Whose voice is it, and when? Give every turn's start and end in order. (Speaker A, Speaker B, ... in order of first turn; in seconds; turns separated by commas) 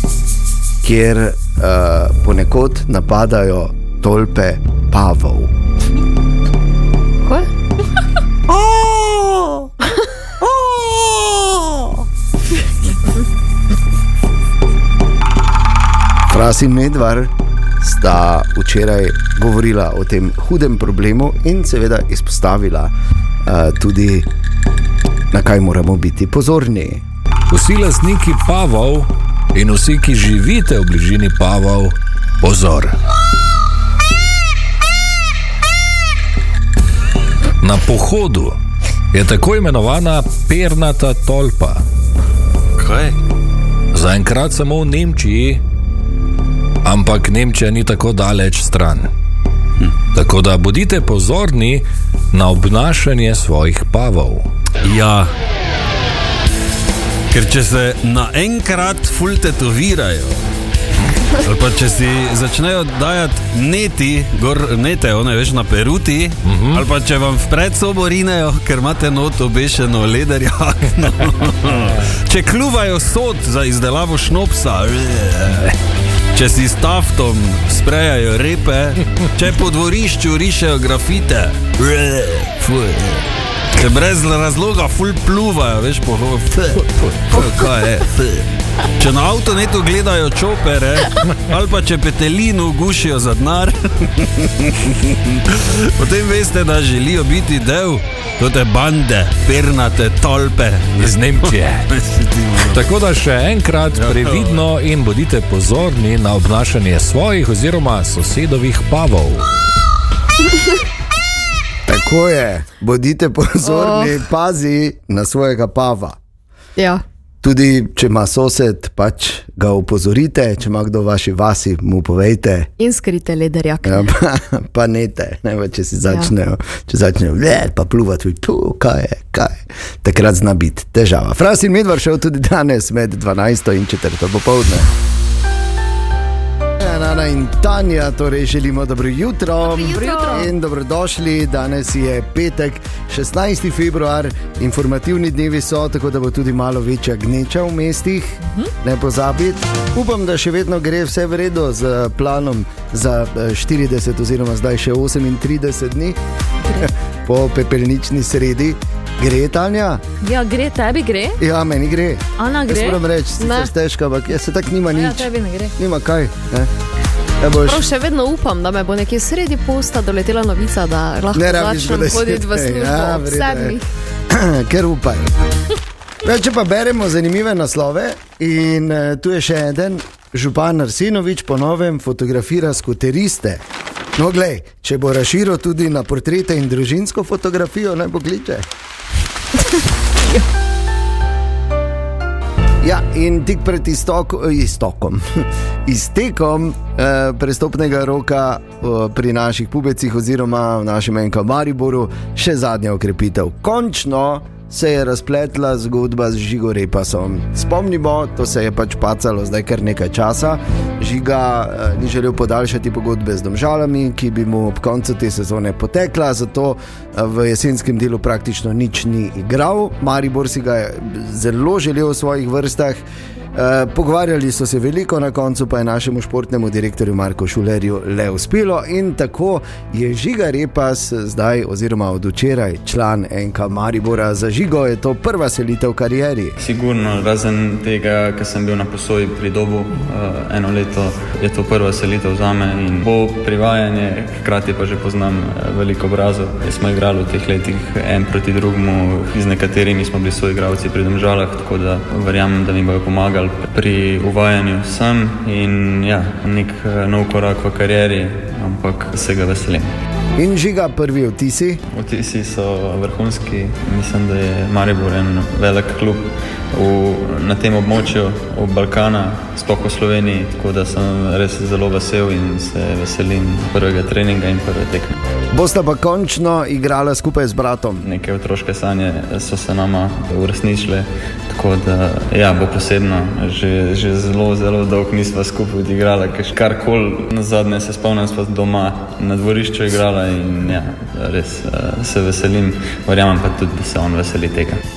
Speaker A: 0.8-5.5, Speaker B: 7.2-7.5, Speaker A: 8.5-9.5, Speaker A: 10.5-11.2, Speaker A: 16.3-22.9, Speaker A: 23.4-24.3, Speaker A: 25.3-27.0, Speaker C: 27.5-33.0, Speaker C: 37.6-38.6, Speaker C: 39.1-41.8, Speaker D: 42.8-43.1, Speaker C: 43.9-45.6, Speaker C: 46.8-49.1, Speaker C: 50.1-54.5, Speaker D: 54.8-55.3, Speaker D: 57.3-60.4, Speaker D: 61.4-75.7, Speaker C: 66.4-66.8, Speaker D: 76.3-88.5, Speaker D: 89.0-102.8, Speaker C: 101.0-101.9, Speaker C: 102.7-109.5, Speaker D: 103.9-104.6, Speaker A: 111.8-116.2, Speaker B: 113.6-114.1, Speaker B: 116.8-117.0, Speaker A: 117.4-122.7, Speaker B: 122.8-124.1, Speaker A: 123.8-134.9, Speaker A: 136.8-156.2, Speaker B: 139.7-140.5, Speaker E: 139.8-140.5, Speaker E: 148.4-148.7, Speaker A: 156.8-160.0, Speaker E: 160.2-161.4, Speaker A: 161.4-166.7, Speaker E: 162.4-163.0, Speaker B: 163.4-163.7, Speaker E: 164.9-165.8, Speaker A: 167.4-167.8, Speaker B: 167.6-173.8, Speaker A: 171.3-175.3, Speaker A: 176.2-183.6, Speaker A: 184.1-188.7, Speaker A: 192.8-223.0, Speaker A: 223.5-236.6, Speaker F: 236.6-259.9, Speaker A: 260.4-261.8, Speaker F: 261.9-275.2, Speaker A: 275.5-278.0, Speaker F: 278.0-294.8